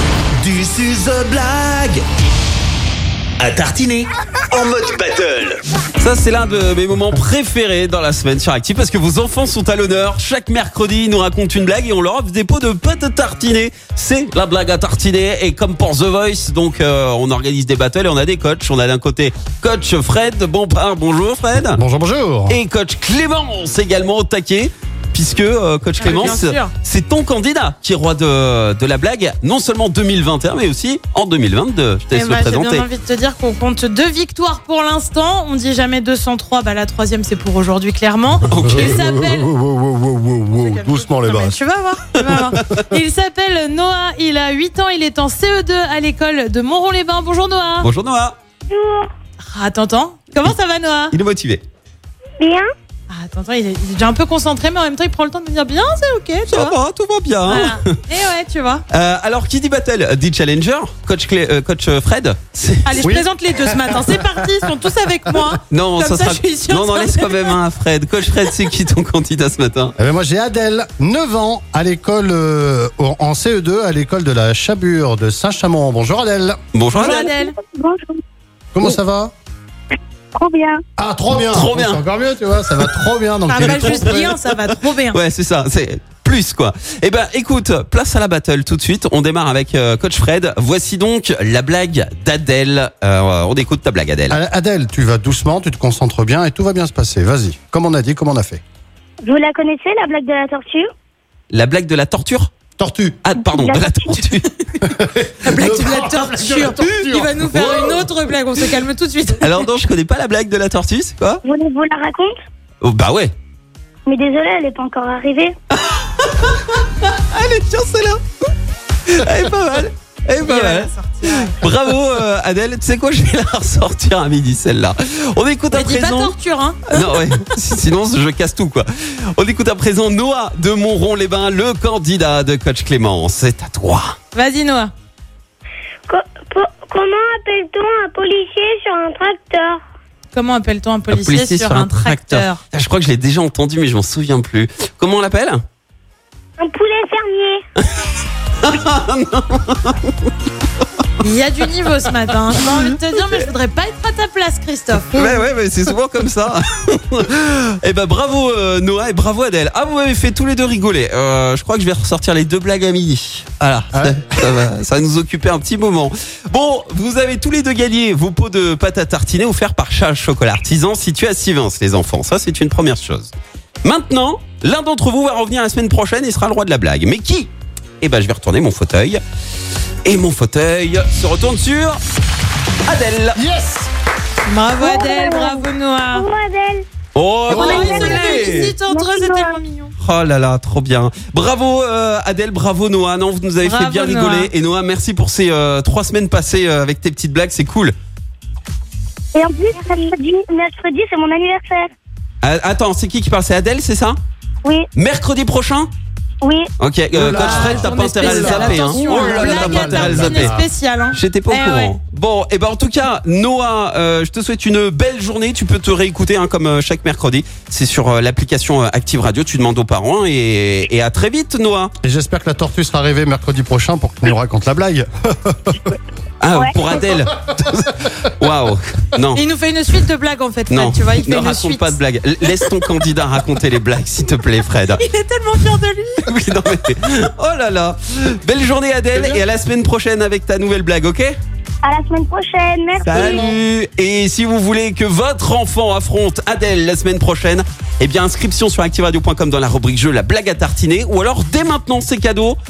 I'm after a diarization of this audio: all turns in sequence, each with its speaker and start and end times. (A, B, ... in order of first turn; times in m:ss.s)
0:00.4-0:02.0 A
0:03.4-0:05.6 A
0:06.0-0:21.8 B
0:21.6-0:22.6 C
0:22.5-0:32.9 B
0:26.0-0:26.7 D
0:32.1-0:39.5 D
0:38.5-0:39.1 B
0:38.5-0:41.6 C
0:40.6-0:47.9 D
0:47.8-0:48.4 B
0:48.7-0:49.1 E
0:49.5-0:51.2 D
0:51.1-0:51.6 B
0:52.4-0:52.7 E
0:53.1-0:56.8 D
0:56.5-0:58.0 B
0:57.4-0:58.8 D
0:58.9-1:03.2 B
1:02.8-1:07.6 D
1:03.0-1:04.7 C
1:05.7-1:09.9 B
1:10.0-1:16.6 C
1:16.7-1:17.3 B
1:16.9-1:17.5 D
1:16.9-1:18.2 E
1:18.7-1:19.3 C
1:20.4-1:20.8 E
1:21.0-1:24.4 C
1:21.3-1:22.0 B
1:22.7-1:23.0 B
1:23.5-1:25.2 D
1:23.6-1:34.4 B
1:34.3-1:38.6 C
1:39.2-1:40.9 E
1:41.5-1:42.5 B
1:42.8-1:43.2 C
1:43.2-1:44.5 B
1:43.4-1:44.2 E
1:44.8-1:48.0 C
1:45.4-1:49.7 D
1:49.4-1:51.4 B
1:51.4-1:52.3 E
1:52.8-1:53.3 B
1:54.0-1:55.5 E
1:55.7-1:58.2 B
1:59.1-2:06.3 B
2:00.4-2:01.7 D
2:05.7-2:07.4 D
2:06.9-2:14.2 B
2:14.3-2:14.9 D
2:16.1-2:19.8 E
2:20.3-2:22.6 D
2:21.1-2:25.6 B
2:26.6-2:27.6 E
2:28.6-2:30.3 B
2:31.2-2:35.4 D
2:35.1-2:53.3 B
2:43.9-2:44.6 C
2:53.8-2:57.5 B
2:58.0-2:59.2 B
3:00.0-3:02.0 B
3:02.8-3:03.4 B
3:03.3-3:03.9 C
3:04.5-3:06.3 D
3:04.8-3:06.8 E
3:07.1-3:08.7 B
3:07.5-3:08.2 C
3:07.5-3:09.6 E
3:07.6-3:09.9 D
3:10.0-3:17.9 B
3:13.6-3:14.5 D
3:19.3-3:21.9 E
3:22.4-3:24.2 B
3:24.9-3:25.9 B
3:26.4-3:26.7 E
3:26.8-3:30.6 B
3:27.1-3:30.6 C
3:27.4-3:32.0 D
3:31.1-3:41.9 B
3:42.0-3:45.8 C
3:46.4-3:49.4 B
3:49.3-3:52.8 D
3:50.7-3:55.0 B
3:54.8-3:56.3 D
3:56.3-4:01.4 B
4:01.8-4:03.5 E
4:03.0-4:12.6 B